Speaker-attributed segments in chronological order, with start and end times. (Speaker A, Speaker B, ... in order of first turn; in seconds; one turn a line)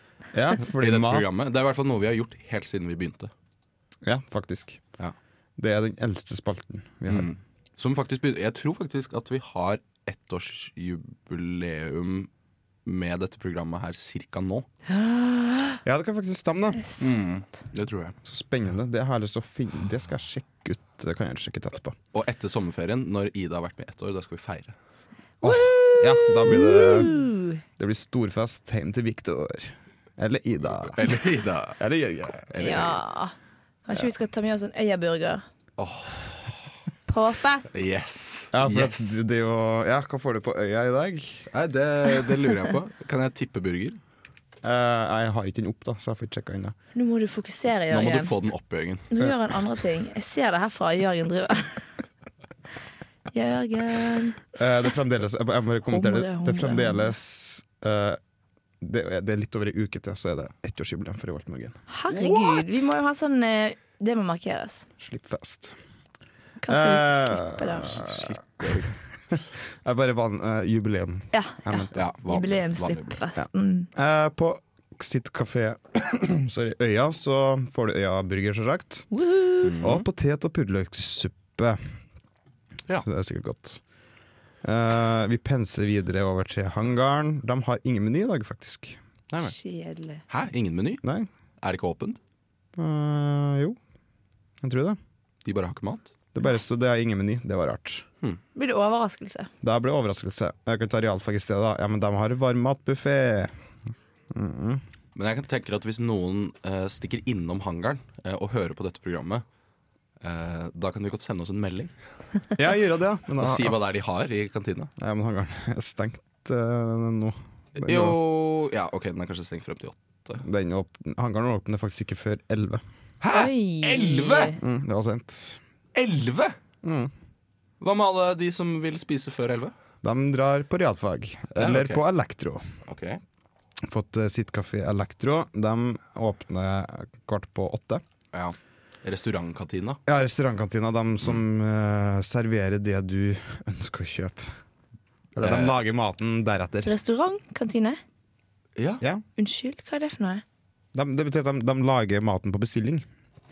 Speaker A: 0.3-1.3
Speaker B: 0.7-3.3
Speaker A: 4.0-4.8
Speaker A: 5.6-7.3
Speaker B: 7.1-12.3
Speaker B: 12.8-14.7
Speaker C: 14.9-15.8
Speaker A: 15.8-16.8
Speaker C: 16.8-17.1
Speaker B: 17.0-18.1
Speaker A: 18.2-22.0
Speaker B: 22.1-24.8
Speaker A: 25.4-27.1
Speaker C: 25.4-27.6
Speaker A: 27.8-31.2
Speaker B: 31.0-31.8
Speaker A: 31.8-32.7
Speaker B: 32.4-33.0
Speaker C: 32.6-35.4
Speaker B: 35.8-36.7
Speaker C: 37.1-37.7
Speaker B: 37.7-39.2
Speaker A: 38.5-41.5
Speaker B: 41.5-44.0
Speaker A: 44.6-46.8
Speaker C: 46.9-48.3
Speaker B: 47.9-49.1
Speaker C: 49.1-51.8
Speaker C: 53.3-54.4
Speaker A: 54.5-58.2
Speaker C: 55.9-57.1
Speaker A: 58.8-62.9
Speaker C: 61.9-64.8
Speaker A: 65.0-65.8
Speaker C: 66.6-68.0
Speaker A: 66.7-72.0
Speaker B: 67.9-69.0
Speaker C: 71.3-73.9
Speaker B: 72.0-73.2
Speaker A: 73.4-79.1
Speaker C: 79.1-79.7
Speaker B: 79.6-80.1
Speaker A: 79.8-81.8
Speaker A: 83.0-83.8
Speaker A: 84.6-89.0
Speaker B: 89.3-89.5
Speaker C: 89.4-90.2
Speaker B: 90.3-91.0
Speaker A: 91.0-91.3
Speaker B: 91.6-92.2
Speaker A: 92.8-93.8
Speaker A: 94.6-95.0
Speaker B: 95.5-96.1
Speaker A: 96.3-98.1
Speaker C: 98.6-99.5
Speaker A: 99.6-103.6
Speaker A: 104.3-104.8
Speaker B: 105.2-109.5
Speaker B: 110.2-111.9
Speaker A: 112.6-113.8
Speaker B: 113.4-114.9
Speaker A: 115.0-118.2
Speaker B: 117.8-120.4
Speaker A: 120.4-122.8
Speaker B: 123.2-124.5
Speaker C: 123.3-124.6
Speaker A: 124.6-125.6
Speaker B: 126.0-126.6
Speaker A: 126.8-127.1
Speaker B: 127.8-129.7
Speaker A: 130.0-132.6
Speaker B: 131.6-132.0
Speaker B: 132.9-133.2
Speaker A: 133.8-138.0
Speaker B: 138.3-140.0
Speaker A: 140.1-144.5
Speaker A: 145.3-146.9
Speaker B: 145.4-145.8
Speaker C: 146.9-148.0
Speaker B: 148.8-149.0
Speaker C: 149.4-150.4
Speaker A: 150.9-153.1